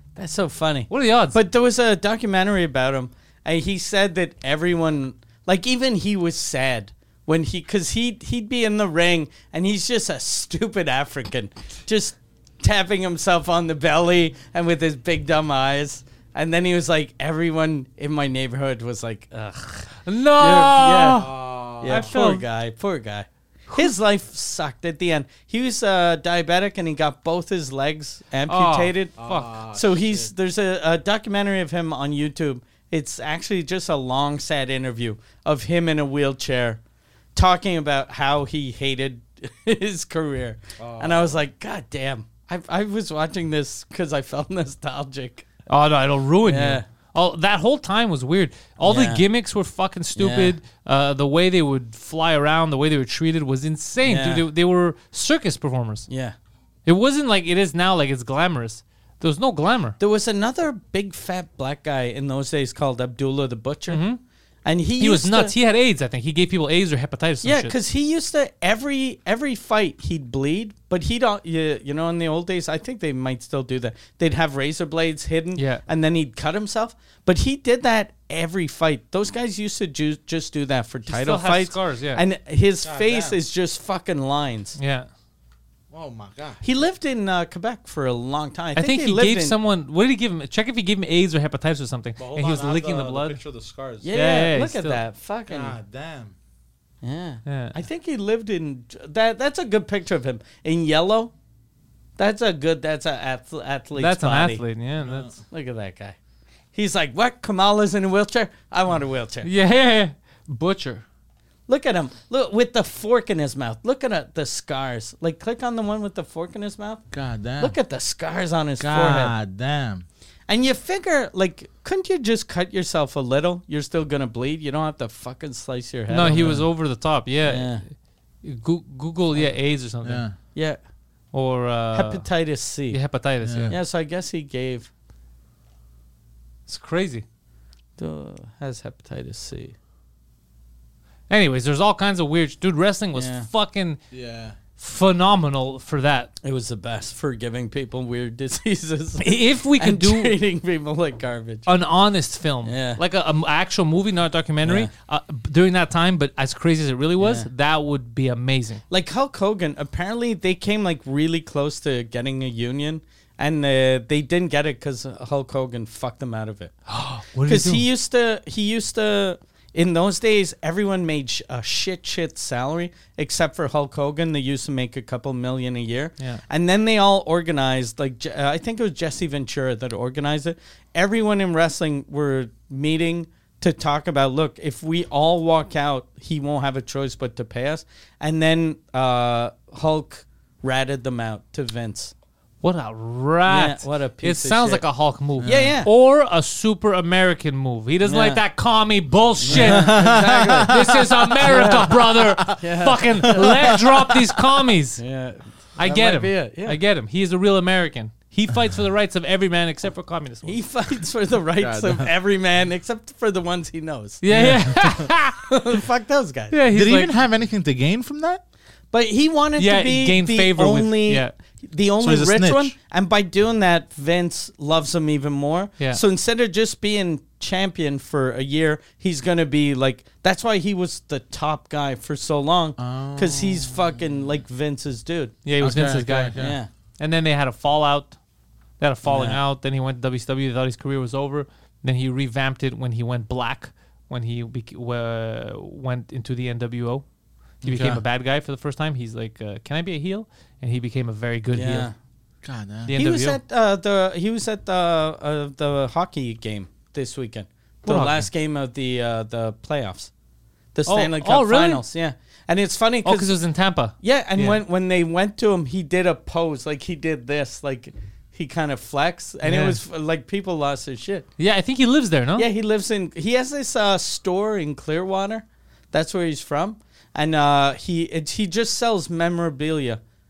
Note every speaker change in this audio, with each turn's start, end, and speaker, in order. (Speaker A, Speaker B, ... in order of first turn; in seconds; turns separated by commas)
Speaker A: 0.1-21.3, Speaker B: 0.9-1.4, Speaker B: 20.0-22.4, Speaker C: 21.1-22.1, Speaker A: 21.8-29.1, Speaker B: 28.5-29.5, Speaker C: 29.2-30.3, Speaker A: 29.7-36.8, Speaker A: 37.3-45.5, Speaker C: 40.8-41.4, Speaker B: 45.7-56.1, Speaker A: 46.4-46.8, Speaker A: 48.8-49.2, Speaker A: 50.1-50.5, Speaker A: 54.0-54.4, Speaker A: 56.1-56.3, Speaker B: 56.9-60.0, Speaker A: 60.0-64.0, Speaker B: 63.9-64.2, Speaker A: 64.6-65.5, Speaker B: 65.0-67.7, Speaker A: 67.4-84.8, Speaker B: 75.5-75.8, Speaker B: 81.1-82.2, Speaker C: 82.8-83.4, Speaker B: 84.8-85.1, Speaker C: 85.9-86.6, Speaker A: 86.6-89.5, Speaker B: 88.8-93.4, Speaker C: 92.2-94.1, Speaker A: 94.0-95.8, Speaker B: 94.1-95.0, Speaker C: 95.5-96.3, Speaker A: 97.0-101.3, Speaker B: 97.5-97.7, Speaker A: 102.2-104.6, Speaker B: 104.0-105.3, Speaker C: 105.0-105.3, Speaker A: 105.5-106.2, Speaker A: 106.7-109.5, Speaker B: 109.4-111.0, Speaker A: 111.7-117.0, Speaker C: 117.1-117.7, Speaker A: 117.6-119.3, Speaker C: 118.8-120.0, Speaker A: 120.5-126.6, Speaker B: 126.1-127.9, Speaker C: 126.3-126.6, Speaker A: 127.4-127.8, Speaker B: 128.4-130.2, Speaker C: 130.0-130.3, Speaker B: 131.3-132.3, Speaker A: 131.9-133.0, Speaker B: 132.9-133.8, Speaker C: 133.4-133.8, Speaker A: 133.7-134.9, Speaker B: 136.7-137.2, Speaker A: 138.0-139.7, Speaker B: 141.3-144.0, Speaker A: 143.1-143.5, Speaker C: 144.1-144.6, Speaker B: 144.8-146.3, Speaker A: 146.4-151.7, Speaker B: 149.2-150.3, Speaker B: 151.7-158.8, Speaker A: 152.6-153.0, Speaker A: 154.6-154.9, Speaker A: 157.2-157.5, Speaker A: 158.9-166.8, Speaker B: 166.9-167.8, Speaker A: 167.4-192.1, Speaker B: 192.6-205.0, Speaker A: 193.5-194.8, Speaker C: 195.4-195.7, Speaker A: 195.4-195.9, Speaker A: 198.0-198.4, Speaker A: 199.4-200.8, Speaker C: 199.5-202.6, Speaker A: 201.4-201.9, Speaker A: 202.5-203.8, Speaker C: 203.2-204.4, Speaker A: 205.0-206.8, Speaker B: 205.8-210.6, Speaker A: 210.4-214.2, Speaker C: 211.6-212.1, Speaker B: 214.2-215.5, Speaker C: 214.3-215.1, Speaker A: 215.4-216.6, Speaker B: 216.5-217.1, Speaker C: 216.7-218.4, Speaker A: 218.9-235.3, Speaker B: 219.6-221.3, Speaker C: 222.0-222.7, Speaker C: 232.8-233.9, Speaker B: 235.4-236.3, Speaker C: 235.6-236.6, Speaker A: 236.4-236.7, Speaker B: 237.0-238.2, Speaker B: 238.8-247.0, Speaker A: 239.0-239.4, Speaker B: 247.6-251.9, Speaker C: 247.6-248.0, Speaker A: 251.5-251.9, Speaker C: 252.4-252.9, Speaker B: 252.9-253.4, Speaker A: 252.9-260.1, Speaker B: 257.8-258.3, Speaker A: 260.7-263.3, Speaker B: 260.9-261.8, Speaker B: 263.0-264.6, Speaker A: 264.0-271.3, Speaker B: 269.4-269.8, Speaker B: 271.4-272.5, Speaker A: 272.4-280.0